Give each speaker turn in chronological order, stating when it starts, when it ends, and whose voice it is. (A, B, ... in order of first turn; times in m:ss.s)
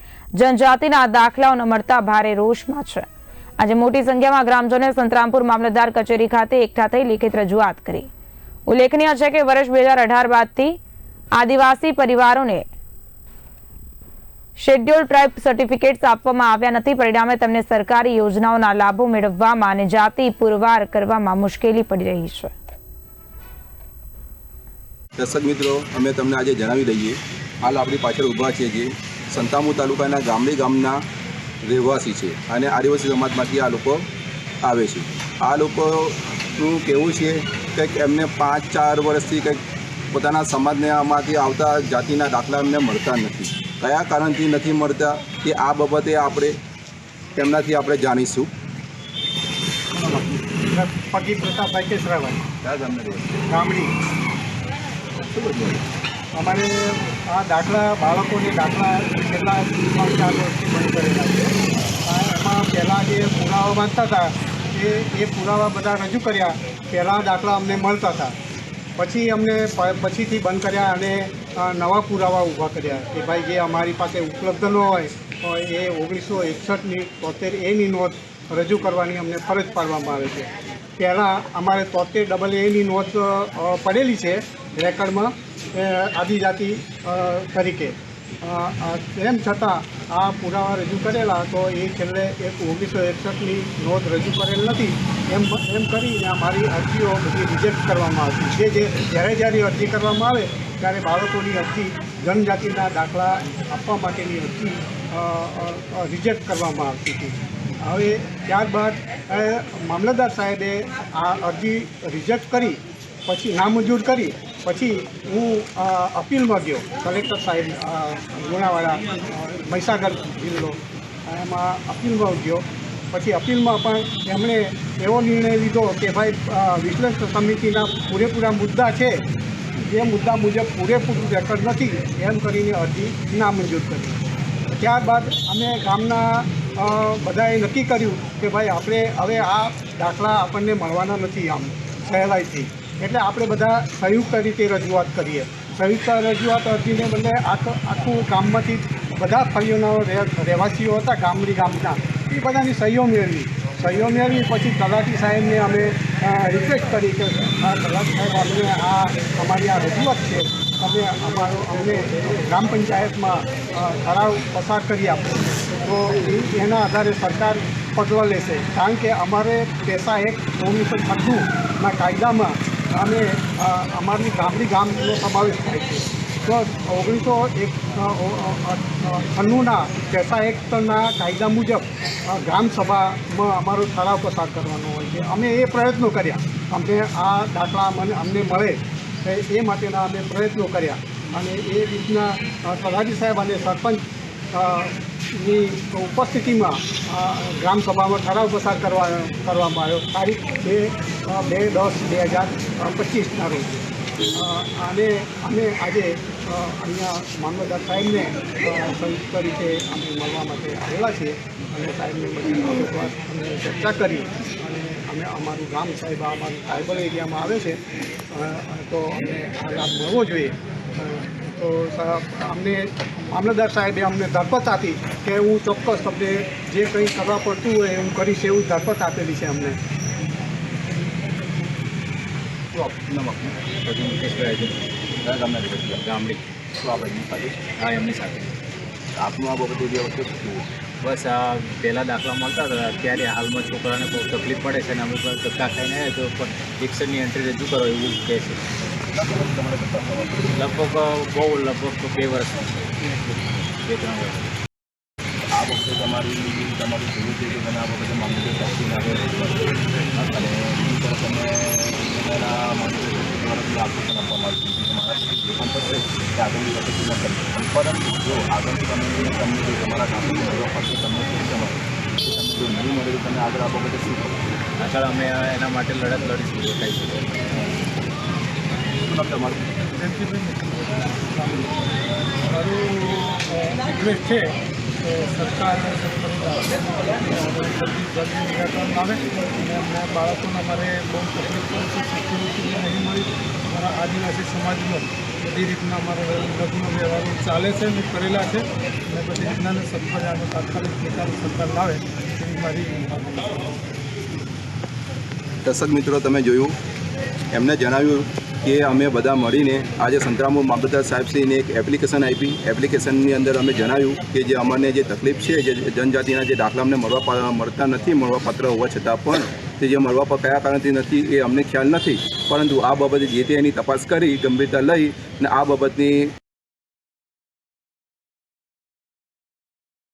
0:00.4-0:03.0 A
0:03.6-0:08.1 A
0:08.7-0:10.8 A
0:11.4-0:12.6 A
0:14.6-0:22.5 A
0:25.2-0:31.0 B
0:31.6-0:34.0 B
0:34.6-0:39.6 B
0:40.1-0:46.6 B
0:47.4-0:48.5 B
0:49.9-0:52.4 C
0:52.6-0:53.4 B
0:53.5-0:53.9 C
0:55.2-0:55.8 B
0:56.3-1:08.3 C
1:09.0-2:09.2 C
2:09.9-2:14.2 C
2:14.8-3:14.0 C
3:14.5-3:23.7 C
3:24.4-3:37.8 C
3:38.3-3:49.8 C
3:52.7-3:53.5 B
3:53.8-3:54.8 D
3:55.2-3:56.0 B
3:55.5-3:56.4 D
3:56.8-3:57.6 B
3:57.8-3:58.5 D
3:59.2-4:00.6 B
4:01.0-4:08.6 D
4:09.1-4:10.5 B
4:10.5-4:12.8 D
4:13.8-4:14.5 D
4:15.5-4:19.7 B
4:20.3-4:34.4 B
4:34.8-4:37.3 D
4:39.0-4:39.7 B
4:39.9-4:41.7 E
4:42.5-5:03.7 E
5:05.6-5:06.7 B
5:07.5-5:26.3 B